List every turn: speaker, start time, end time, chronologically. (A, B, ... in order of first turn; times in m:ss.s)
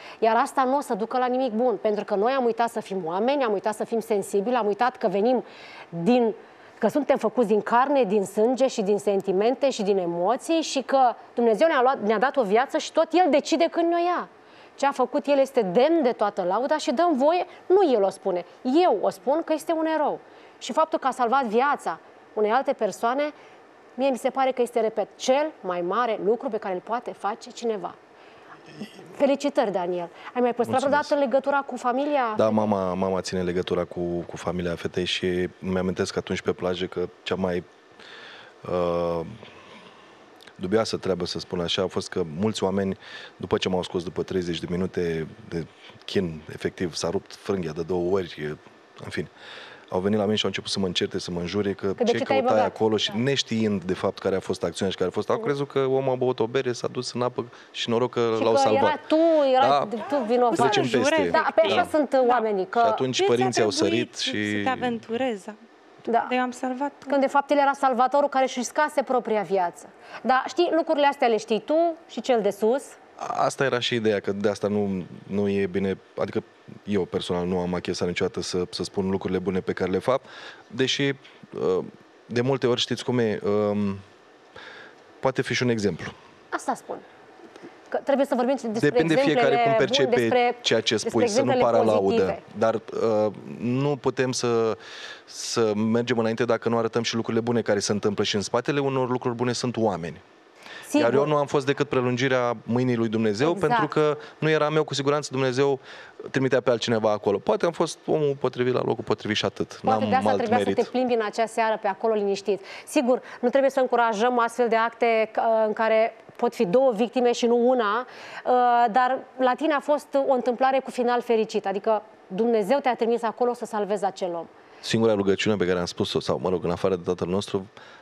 0:00.2-0:23.3 A
0:24.0-0:28.0 A
0:28.9-0:32.7 A
0:30.6-0:31.1 B
0:32.4-0:37.6 B
0:38.6-0:39.4 B
0:40.6-0:49.3 B
0:49.9-0:59.0 B
0:52.0-0:52.8 A
0:58.4-1:03.0 A
0:59.6-1:01.9 B
1:00.2-1:02.4 C
1:02.8-1:05.0 B
1:03.2-1:05.6 C
1:06.1-1:06.3 A
1:06.2-1:07.2 C
1:07.1-1:13.0 A
1:13.2-1:24.0 B
1:25.2-1:26.2 B
1:26.5-1:27.0 A
1:27.9-1:32.4 A
1:28.8-1:40.2 B
1:40.9-1:41.3 A
1:41.0-1:50.9 B
1:43.4-1:43.9 A
1:49.9-2:04.5 A
2:04.8-2:07.7 B